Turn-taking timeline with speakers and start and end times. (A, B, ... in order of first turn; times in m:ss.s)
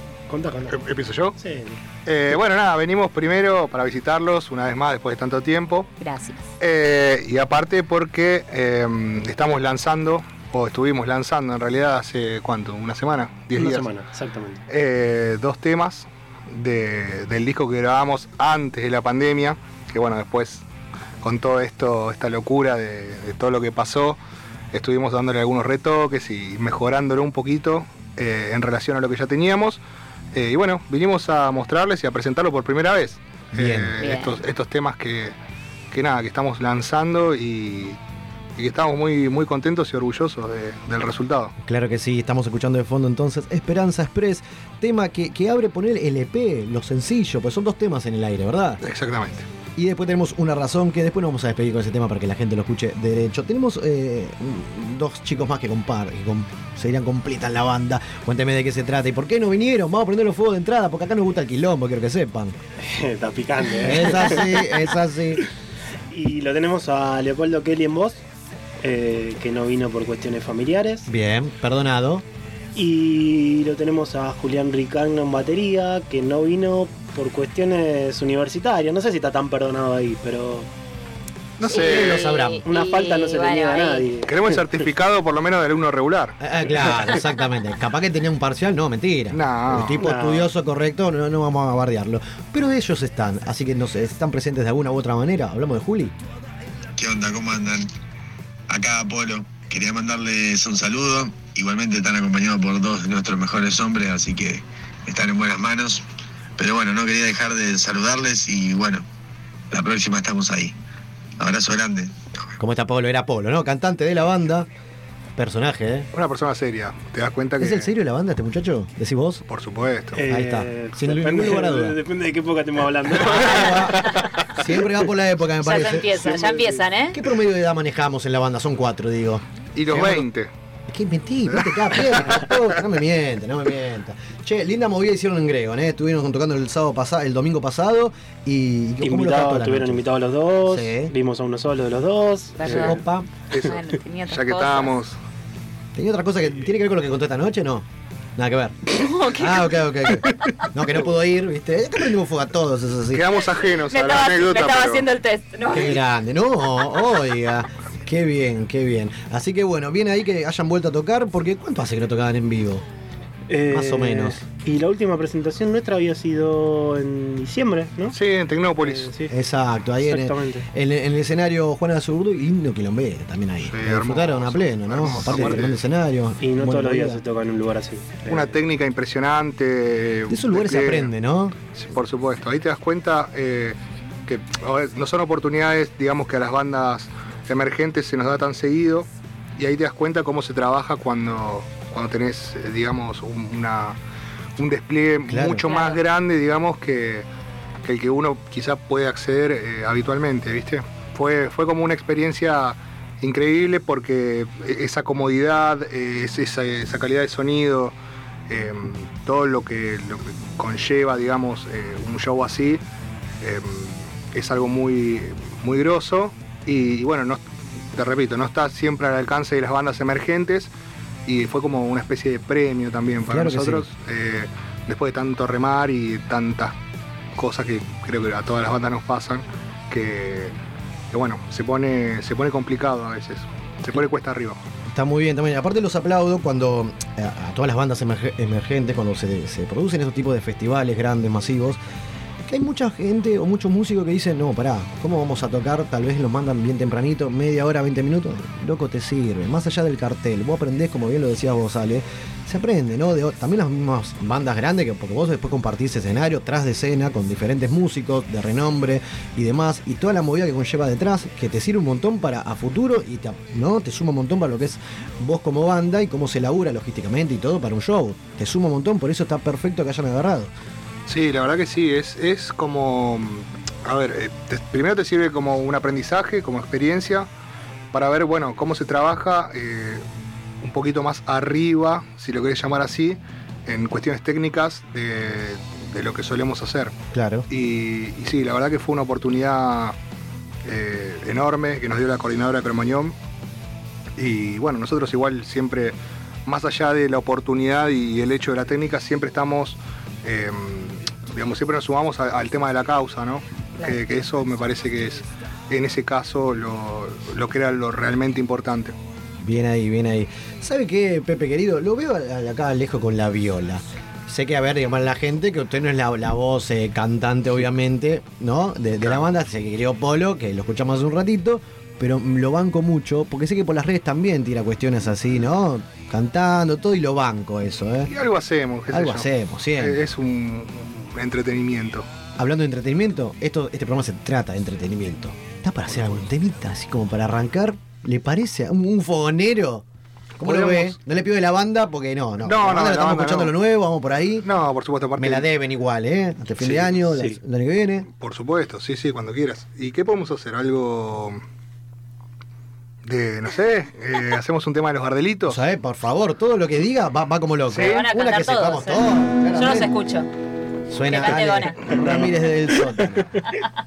0:00.3-0:00.7 A
0:00.7-0:01.4 B
0:01.4-0:01.8 A
0:02.0-0:05.9 B
0:06.0-0:06.4 C
0:06.6-0:13.9 B
0:13.5-0:14.6 A
0:14.7-0:20.6 B
0:21.2-0:24.2 B
0:24.7-0:29.8 B
0:30.3-0:35.3 B
0:33.5-0:33.9 D
0:34.0-0:34.4 C
0:35.9-0:38.0 B
0:38.6-0:41.6 B
0:41.6-0:48.8 D
0:48.8-0:49.4 B
0:49.8-1:02.6 D
1:02.8-1:04.8 A
1:03.8-1:05.4 D
1:06.1-1:08.2 A
1:08.8-1:11.1 A
1:11.1-1:12.2 D
1:12.7-1:20.7 A
1:21.6-1:22.3 B
1:21.6-1:24.1 C
1:21.7-1:22.6 D
1:22.6-1:24.6 A
1:24.2-1:26.4 B
1:26.4-1:36.1 D
1:29.3-1:30.1 B
1:29.9-1:30.5 A
1:37.0-1:37.9 E
1:38.7-1:46.0 E
1:46.6-1:49.0 E
1:49.7-1:50.7 E
1:51.4-1:52.1 E
1:52.6-1:54.7 D
1:55.4-1:56.1 D
1:56.1-1:57.9 B
1:57.6-1:59.4 D
1:59.5-2:00.2 B
2:00.2-2:04.0 A
2:00.2-2:02.0 D
2:03.1-2:06.3 D
2:03.3-2:03.5 B
2:03.4-2:04.3 C
2:05.6-2:07.2 C
2:06.2-2:06.8 B
2:07.1-2:10.3 D
2:09.7-2:10.5 B
2:10.9-2:20.0 D
2:11.5-2:12.4 B
2:19.0-2:22.7 A
2:20.6-2:21.1 D
2:22.6-2:23.0 C
2:22.6-2:25.2 B
2:22.7-2:23.3 D
2:23.6-2:25.0 C
2:25.9-2:27.8 D
2:28.4-2:28.8 D
2:28.9-2:30.6 C
2:29.3-2:33.3 D
2:33.1-2:35.1 B
2:33.7-2:36.0 C
2:35.7-2:42.8 D
2:43.5-2:48.2 A
2:43.7-2:44.4 D
2:48.1-2:49.1 B
2:48.8-2:49.3 A
2:49.3-2:57.2 D
2:50.0-2:50.7 A
2:53.6-2:55.8 B
2:56.4-2:58.6 A
2:58.2-3:01.1 B
3:00.3-3:01.6 D
3:01.6-3:14.0 B
3:14.6-3:17.3 B
3:15.3-3:15.6 D
3:15.6-3:16.0 C
3:17.8-3:27.9 B
3:28.5-3:32.8 B
3:33.4-3:40.7 B
3:41.3-3:46.7 B
3:43.3-3:43.9 D
3:47.4-3:50.6 B
3:51.1-3:54.6 B
3:54.8-4:01.8 D
4:02.4-4:30.5 D
4:31.1-4:37.3 B
4:37.9-4:40.0 B
4:40.6-4:47.0 B
4:47.1-4:47.4 D
4:47.5-4:50.0 B
4:50.6-4:53.1 B
4:54.2-5:08.9 B
5:03.8-5:04.1 C
5:09.4-5:28.1 D
5:28.1-5:32.1 B
5:28.9-5:30.0 D
5:32.4-5:39.8 D
5:40.4-5:44.4 D
5:40.4-5:41.0 B
5:42.4-5:43.5 B
5:44.4-5:45.4 B
5:45.2-5:48.1 D
5:46.6-5:47.0 B
5:47.1-5:47.4 A
5:48.2-5:51.4 B
5:53.0-5:55.6 B
5:55.4-6:00.0 D
5:57.7-5:58.1 B
5:57.8-6:00.3 C
6:00.9-6:03.3 D
6:01.0-6:01.8 C
6:01.9-6:03.2 A